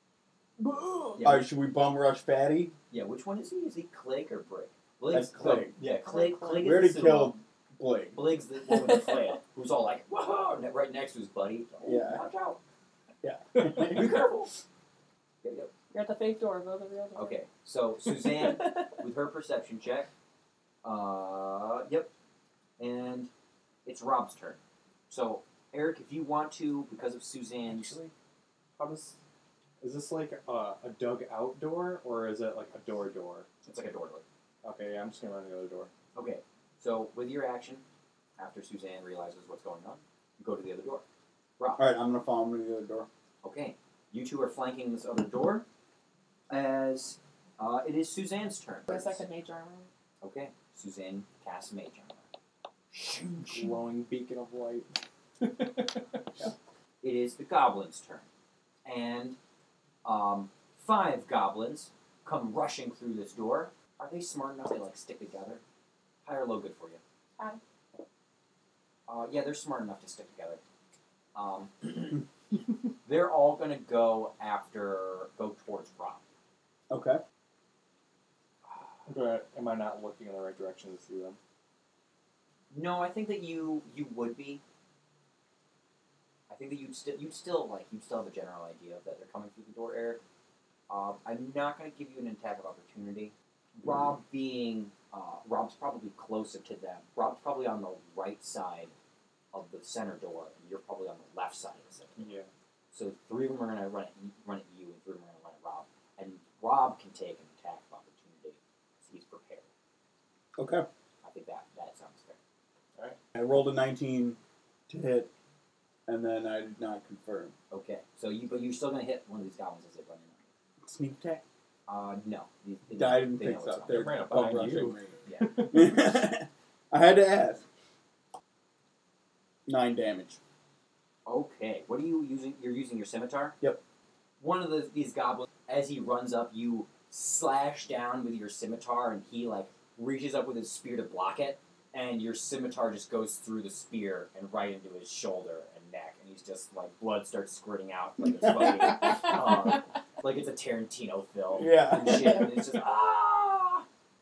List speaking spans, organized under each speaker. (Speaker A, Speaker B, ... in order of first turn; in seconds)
Speaker A: 0.6-1.1, 27.6-28.1, 28.8-29.2, 29.8-33.5, 34.6-35.9, 53.5-56.2, 79.1-81.4, 102.2-102.5, 123.9-125.8
Speaker B: 1.1-1.5, 2.9-7.4, 8.1-12.6, 13.6-14.5, 15.4-15.7, 17.1-20.1, 20.8-22.1, 22.8-23.3, 23.8-27.9, 33.6-34.2, 36.1-37.8, 38.4-41.0, 41.6-41.8, 43.4-45.6, 46.5-49.2, 50.2-52.3, 52.9-53.7, 57.0-58.2, 58.8-59.4, 60.0-65.6, 66.2-67.0, 69.1-70.6, 71.3-72.2, 73.0-76.2, 82.7-84.6, 86.5-90.2, 90.9-98.9, 99.5-102.3, 102.9-109.7, 111.2-112.4, 117.7-120.5, 121.9-124.4, 125.2-125.7, 131.2-133.6, 134.4-153.8
Speaker C: 1.2-2.7, 5.1-5.8, 6.6-8.2, 11.8-12.2, 13.2-14.2, 41.8-43.1, 76.9-77.2, 110.6-110.9, 113.3-114.4, 114.9-115.3, 116.1-117.5, 120.8-121.4, 122.9-127.6, 129.7-130.4, 151.5-152.5
Speaker D: 5.9-6.8, 15.9-17.4, 18.1-18.9, 48.9-49.9